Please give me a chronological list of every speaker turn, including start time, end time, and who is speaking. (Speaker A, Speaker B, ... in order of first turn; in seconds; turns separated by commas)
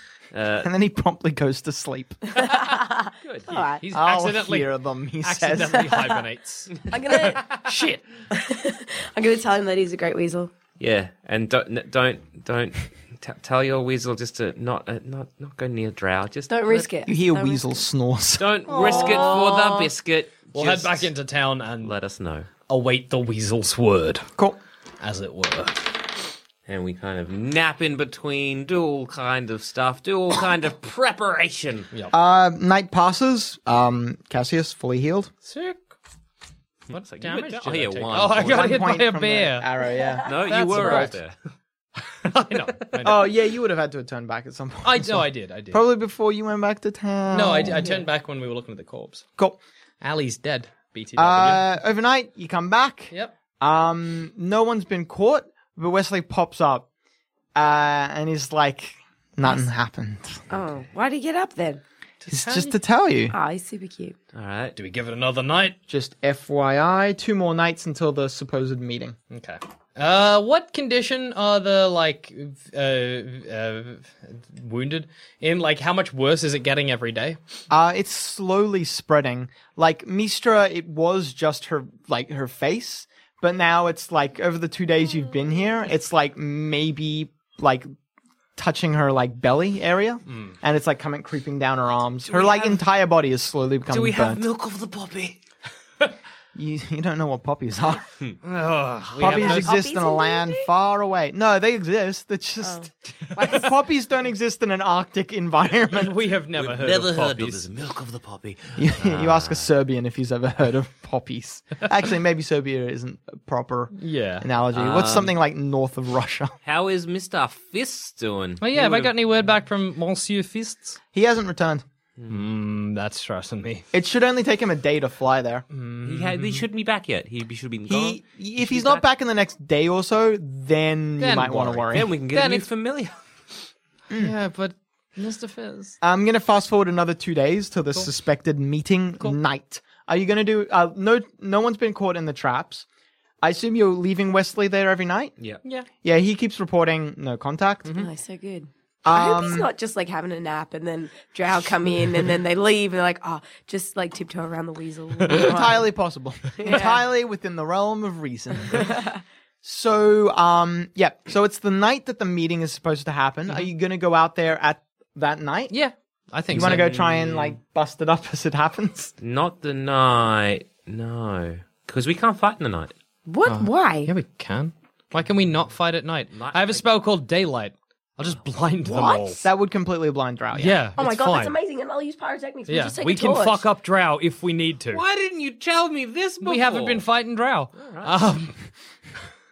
Speaker A: 0.3-0.7, Speaker B: 0.6-2.2, Speaker C: 2.3-3.8, Speaker A: 3.2-3.6, Speaker D: 3.8-4.7, Speaker B: 3.9-5.9, Speaker D: 5.2-8.0, Speaker C: 5.8-6.2, Speaker C: 6.9-7.5, Speaker C: 8.3-10.5, Speaker A: 10.8-16.9, Speaker C: 16.5-17.8, Speaker B: 17.1-18.5, Speaker A: 18.4-21.1, Speaker D: 18.7-19.4, Speaker C: 18.8-19.9, Speaker D: 20.5-21.9, Speaker A: 21.8-22.5, Speaker D: 22.7-24.3, Speaker D: 25.0-25.9, Speaker A: 26.7-31.9, Speaker B: 32.1-35.3, Speaker D: 35.4-35.8, Speaker A: 36.9-38.9, Speaker D: 36.9-39.7, Speaker B: 38.3-41.1, Speaker A: 40.2-41.3, Speaker D: 40.5-41.1, Speaker D: 42.2-43.2, Speaker B: 43.0-47.9, Speaker D: 44.8-45.8, Speaker D: 47.3-49.2, Speaker D: 50.0-51.6, Speaker B: 51.2-56.9, Speaker B: 57.5-60.4, Speaker C: 60.5-61.8, Speaker D: 62.2-62.8, Speaker B: 62.3-63.3, Speaker C: 63.3-64.1, Speaker A: 64.3-64.7, Speaker D: 64.7-65.8, Speaker B: 65.9-69.2, Speaker D: 69.3-77.4, Speaker B: 77.7-87.9, Speaker B: 88.6-94.4, Speaker D: 90.3-90.5, Speaker A: 93.9-95.4, Speaker B: 96.5-98.0, Speaker D: 98.4-99.7, Speaker B: 99.2-106.1, Speaker C: 99.2-100.7, Speaker C: 102.6-103.6, Speaker D: 105.9-107.6, Speaker A: 106.5-109.7, Speaker B: 108.8-116.5, Speaker D: 113.9-114.5, Speaker A: 114.7-115.3, Speaker A: 116.6-119.1, Speaker D: 118.6-121.0, Speaker B: 121.1-121.8, Speaker A: 122.2-122.4, Speaker D: 122.3-123.8, Speaker B: 123.9-125.6, Speaker D: 125.7-126.6, Speaker A: 126.0-129.0, Speaker B: 127.9-132.1, Speaker D: 131.2-132.7, Speaker A: 131.9-133.2, Speaker D: 134.1-135.9, Speaker B: 136.0-142.8, Speaker B: 143.4-145.3, Speaker B: 146.0-148.1, Speaker C: 147.9-155.9, Speaker B: 149.0-149.7, Speaker B: 155.3-159.0, Speaker C: 156.6-157.0, Speaker C: 158.7-159.2, Speaker B: 159.6-165.7, Speaker D: 165.7-167.4, Speaker B: 166.5-169.1, Speaker A: 166.5-167.4, Speaker A: 169.2-172.9, Speaker C: 173.2-174.1, Speaker D: 173.4-179.4, Speaker A: 176.3-176.8, Speaker C: 178.9-179.4, Speaker B: 179.4-180.9, Speaker D: 180.5-181.5, Speaker C: 181.0-183.7, Speaker D: 182.7-185.0, Speaker A: 184.9-187.0, Speaker D: 186.4-188.6, Speaker A: 187.8-188.2